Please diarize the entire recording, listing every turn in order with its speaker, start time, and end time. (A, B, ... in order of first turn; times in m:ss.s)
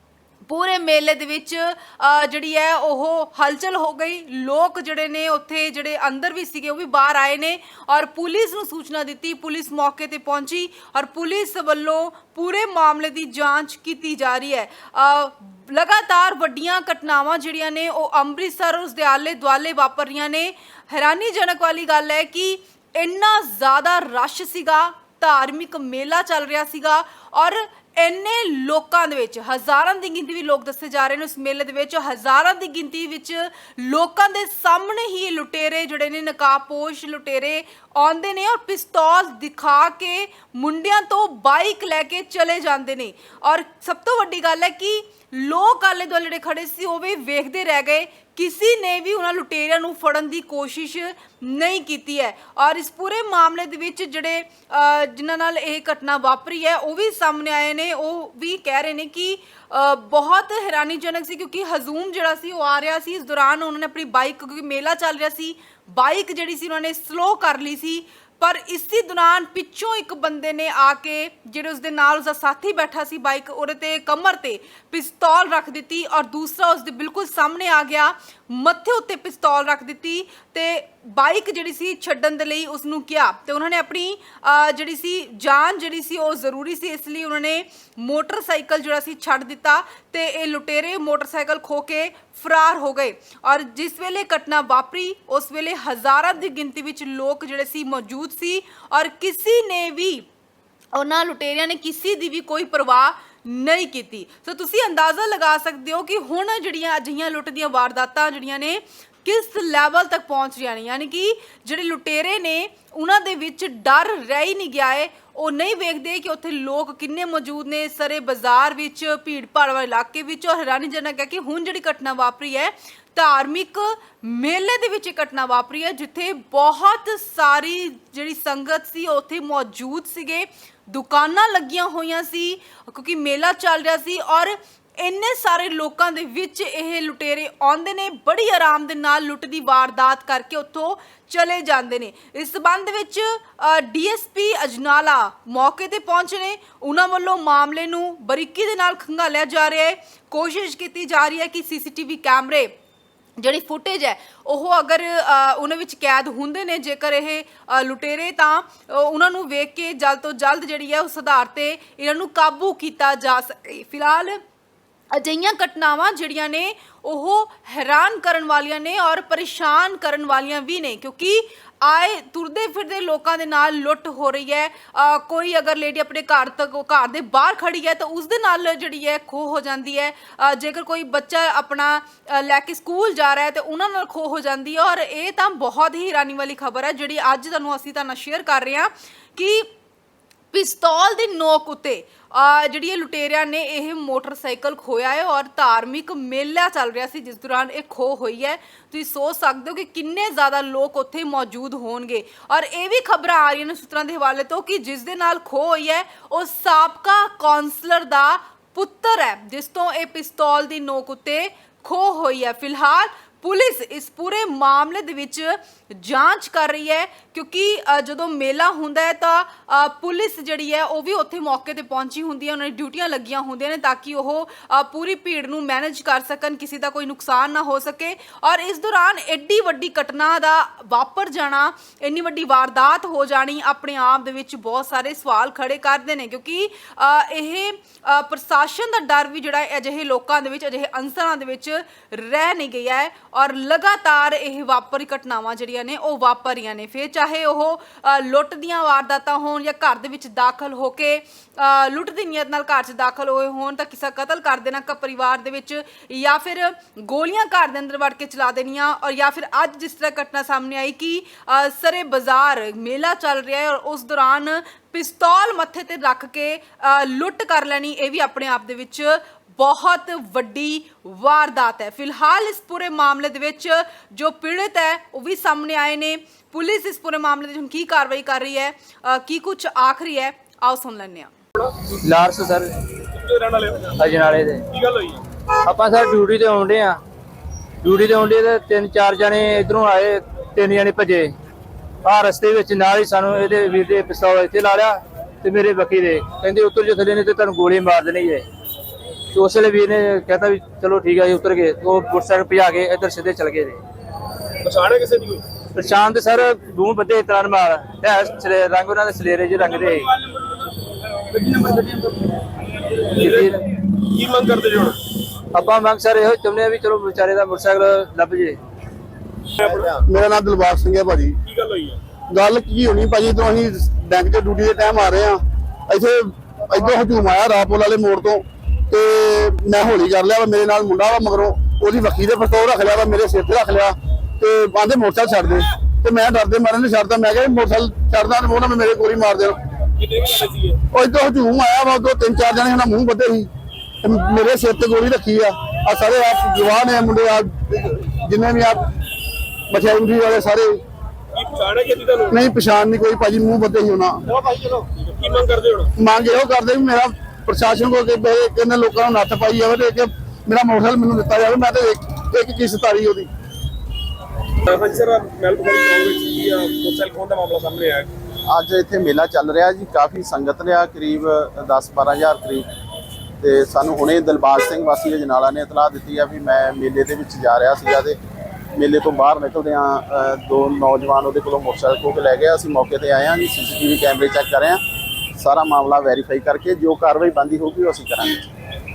0:00.5-1:40.3 A
1:40.9-2:32.7 A
2:33.4-2:44.4 A
2:45.1-3:09.7 A
3:10.5-4:41.3 A
4:42.0-4:42.7 B
4:43.1-4:43.9 C
4:44.0-4:44.7 B
4:44.7-4:45.2 C
4:45.6-4:47.0 B
4:47.8-4:51.3 B
4:52.0-4:58.4 B
4:59.3-5:03.8 B
5:04.6-5:05.4 C
5:05.8-5:10.1 B
5:11.4-5:12.0 C
5:13.1-5:13.7 B
5:13.1-5:15.0 C
5:15.5-5:18.6 B
5:19.6-5:20.0 C
5:20.0-5:21.4 D
5:21.5-5:22.0 C
5:22.3-5:39.6 D
5:40.0-5:40.8 C
5:40.9-5:43.5 D
5:44.0-5:49.0 D
5:49.7-5:50.8 D
5:51.3-5:52.4 C
5:52.3-5:54.7 D
5:55.0-5:55.9 C
5:56.0-6:03.3 D
6:04.7-6:08.1 C
6:08.5-6:12.7 E
6:13.4-6:18.2 E
6:18.7-6:24.8 E
6:25.4-6:28.5 E